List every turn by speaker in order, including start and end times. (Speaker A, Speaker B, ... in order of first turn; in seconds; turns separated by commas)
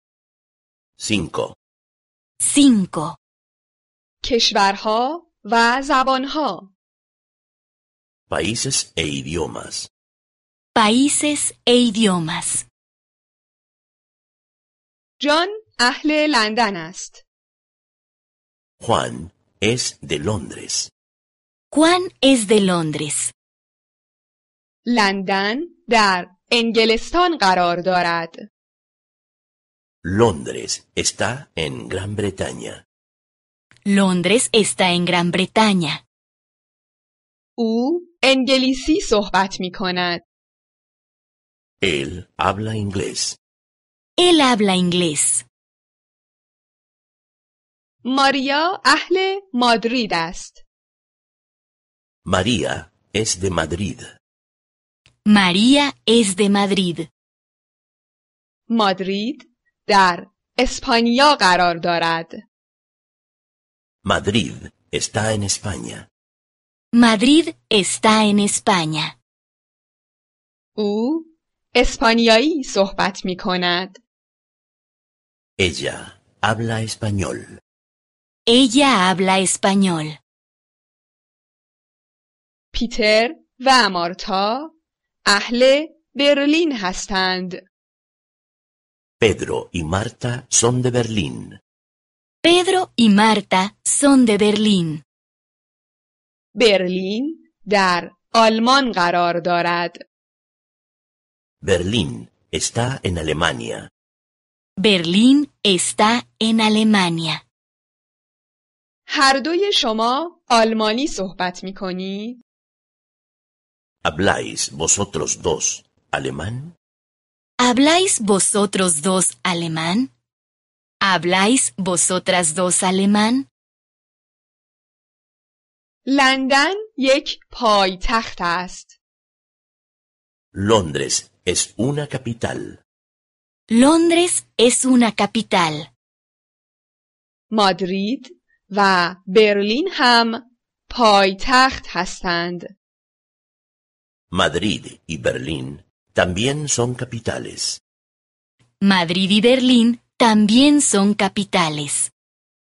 Speaker A: 1.0-1.6, Speaker B: 2.4-3.2, Speaker C: 4.2-6.7, Speaker A: 8.3-9.9, Speaker B: 10.7-12.6, Speaker C: 15.2-17.2, Speaker A: 18.8-20.9, Speaker B: 21.7-23.3, Speaker C: 24.9-28.4, Speaker A: 30.0-32.8, Speaker B: 33.9-36.0, Speaker C: 37.6-40.2, Speaker A: 41.8-43.4, Speaker B: 44.2-45.4, Speaker C: 48.0-50.6, Speaker A: 52.2-54.1, Speaker B: 55.2-57.1, Speaker C: 58.7-62.4, Speaker A: 64.0-66.1, Speaker B: 66.9-69.1, Speaker C: 70.8-74.0, Speaker A: 75.6-77.5, Speaker B: 78.5-80.2, Speaker C: 82.7-84.7, Speaker C: 85.2-87.6, Speaker A: 89.2-91.6, Speaker B: 92.4-95.0, Speaker C: 96.5-100.0, Speaker A: 101.6-103.9, Speaker B: 104.8-107.4, Speaker C: 109.1-112.4, Speaker A: 114.0-116.7, Speaker B: 117.6-120.1, Speaker B: 121.0-123.5, Speaker C: 126.0-128.9, Speaker A: 130.5-132.8, Speaker B: 133.7-135.9, Speaker C: 137.5-142.7, Speaker A: 144.3-147.8, Speaker B: 148.8-152.1